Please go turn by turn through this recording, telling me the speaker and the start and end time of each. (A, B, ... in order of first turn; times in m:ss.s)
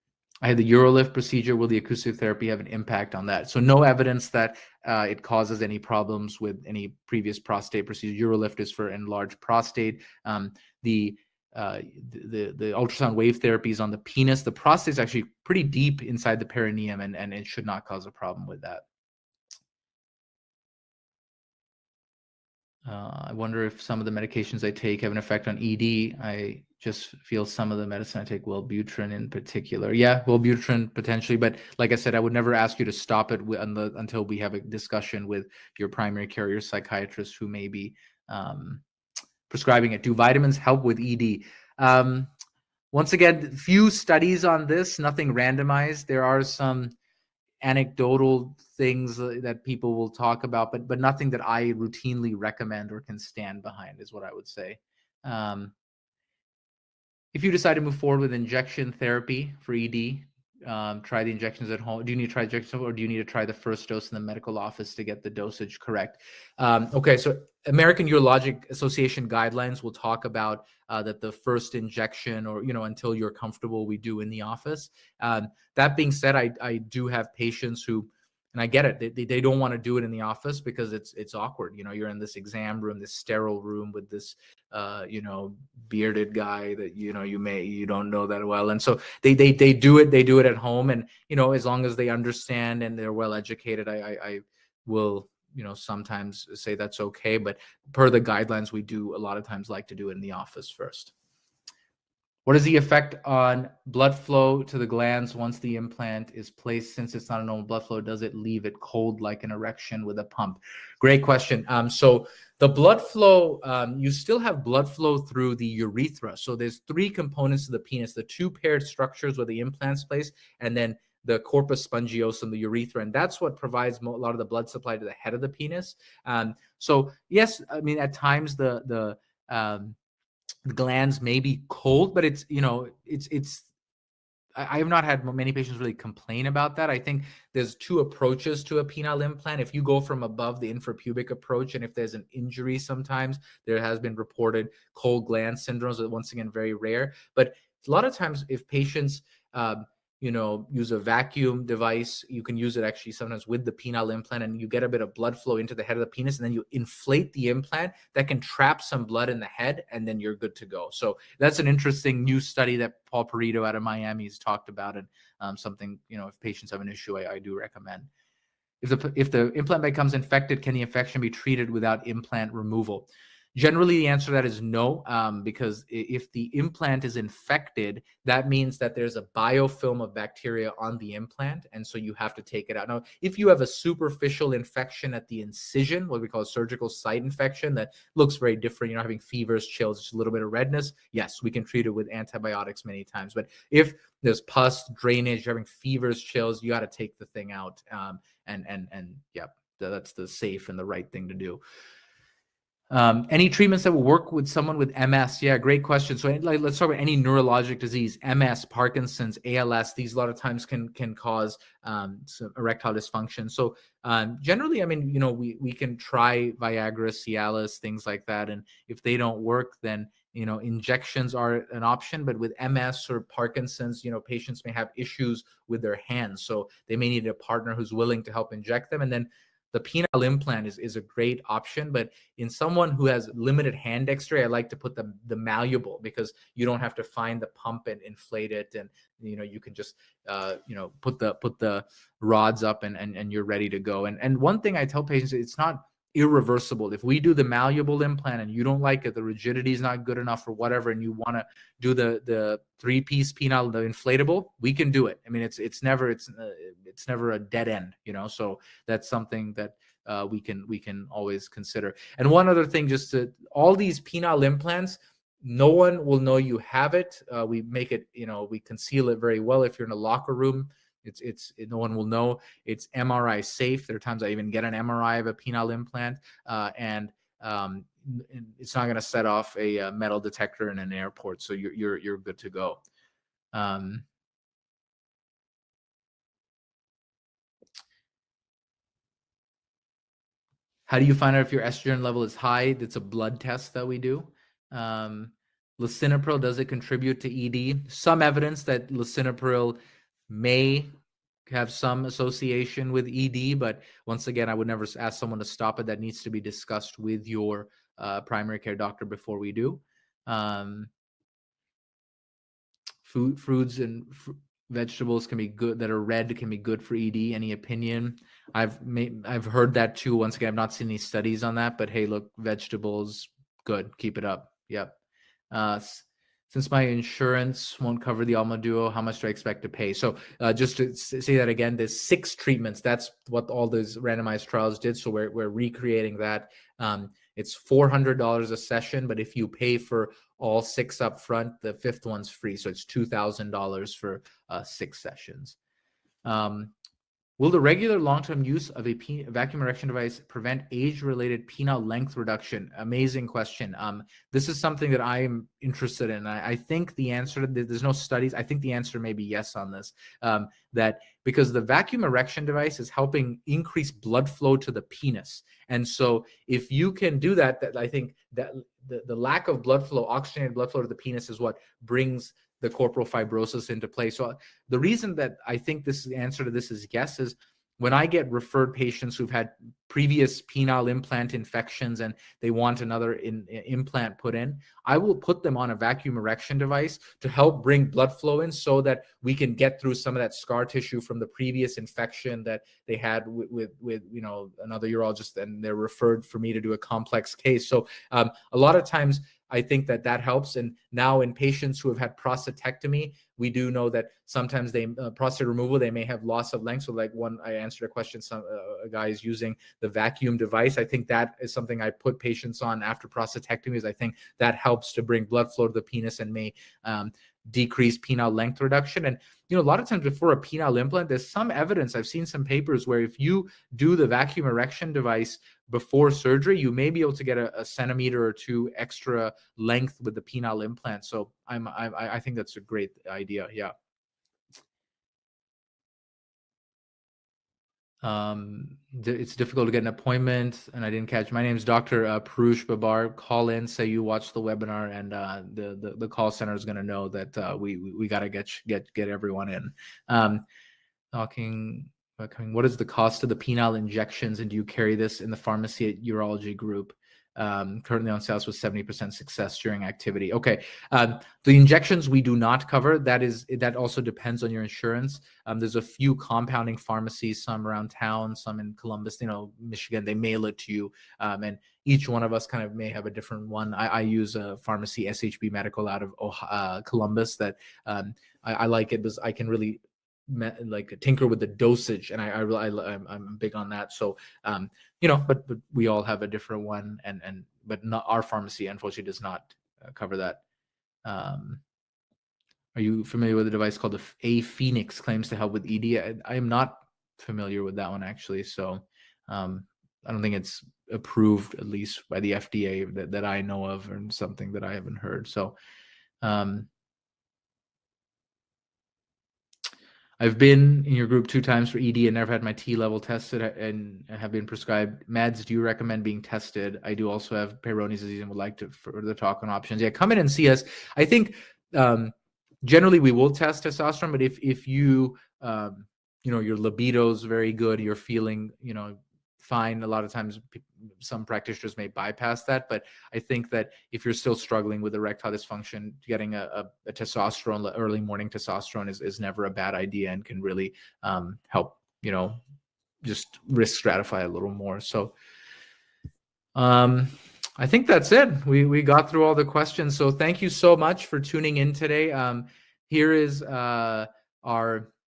0:00.4-0:18.8 A
0:22.8-0:38.8 A
0:39.5-0:42.3 A
0:42.9-0:46.9 A
0:47.6-0:55.7 A
0:57.3-1:41.1 A
1:42.4-2:10.0 A
2:10.6-2:13.7 A
2:14.6-2:48.1 A
2:48.8-3:21.6 A
3:22.9-4:42.8 A
4:43.5-4:44.0 A
4:50.9-4:59.8 A
5:00.3-5:00.9 A
5:01.4-5:10.9 A
5:13.0-5:25.0 A
5:25.5-5:45.6 A
5:46.2-5:46.7 A
5:47.4-7:13.7 A
7:18.0-7:30.4 A
7:31.1-8:10.4 A
8:11.0-8:11.6 A
8:12.7-8:25.6 A
8:26.2-8:26.7 A
8:30.2-9:02.4 A
9:03.0-9:05.1 A
9:06.6-9:14.9 A